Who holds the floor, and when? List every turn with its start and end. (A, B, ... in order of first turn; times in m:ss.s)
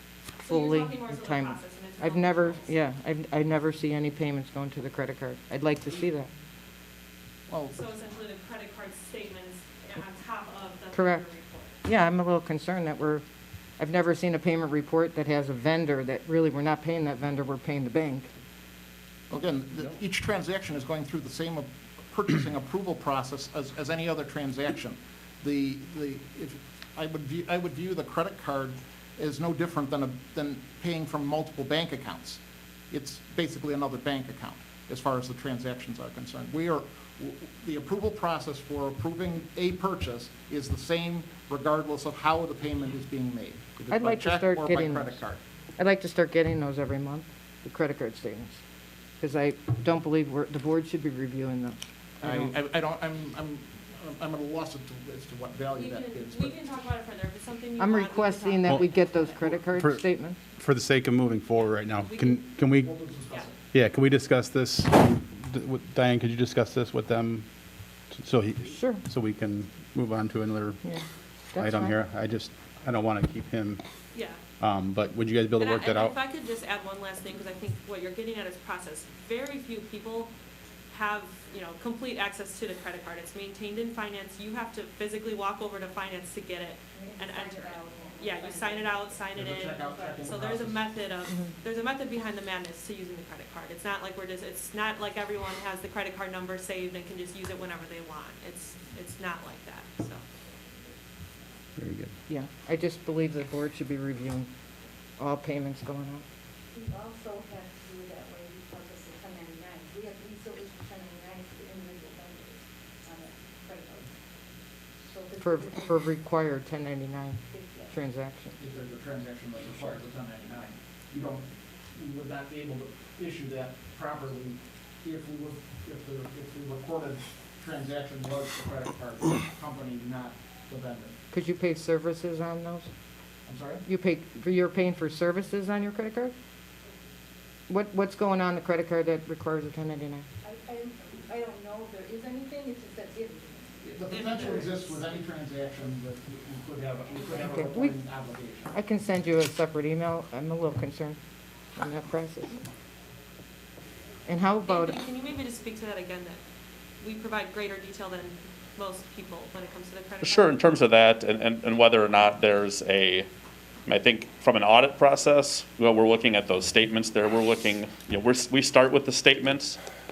0:00.4-0:02.7 A
0:00.5-0:06.3 B
0:07.5-0:07.8 C
0:07.7-0:11.8 A
0:10.9-0:11.2 B
0:11.8-0:13.2 B
0:13.8-0:18.3 B
0:19.3-0:45.4 C
0:43.9-0:45.2 B
0:45.8-0:48.6 B
0:49.2-0:52.5 B
0:52.2-0:56.5 C
0:55.7-0:59.2 A
0:57.8-1:00.4 B
0:59.4-1:00.0 D
1:00.6-1:02.9 D
1:02.0-1:02.4 A
1:02.8-1:03.6 C
1:03.7-1:07.4 D
1:08.1-1:10.8 D
1:08.7-1:09.0 B
1:11.5-1:11.9 B
1:11.6-1:13.8 D
1:14.1-1:14.4 A
1:14.6-1:16.1 D
1:15.6-1:20.3 A
1:20.9-1:40.2 A
1:26.9-1:29.2 E
1:29.3-1:30.9 C
1:29.8-1:30.2 E
1:41.8-1:42.1 D
1:42.3-1:44.5 B
1:45.2-1:46.2 B
1:46.7-1:54.1 E
1:55.1-1:56.0 E
1:55.4-1:58.6 B
1:57.5-1:57.9 E
1:58.6-2:11.2 C
2:11.3-2:12.9 B
2:13.5-2:13.8 C
2:13.9-2:16.3 B
2:17.7-2:20.3 B
2:20.4-2:24.8 E
2:23.8-2:28.8 C
2:24.1-2:24.7 A
2:27.3-2:28.0 B
2:28.7-2:31.2 B
2:31.8-2:32.6 B
2:34.3-2:35.0 B
2:34.6-2:36.4 A
2:37.0-2:40.8 A
2:40.2-2:43.3 F
2:43.9-2:49.8 F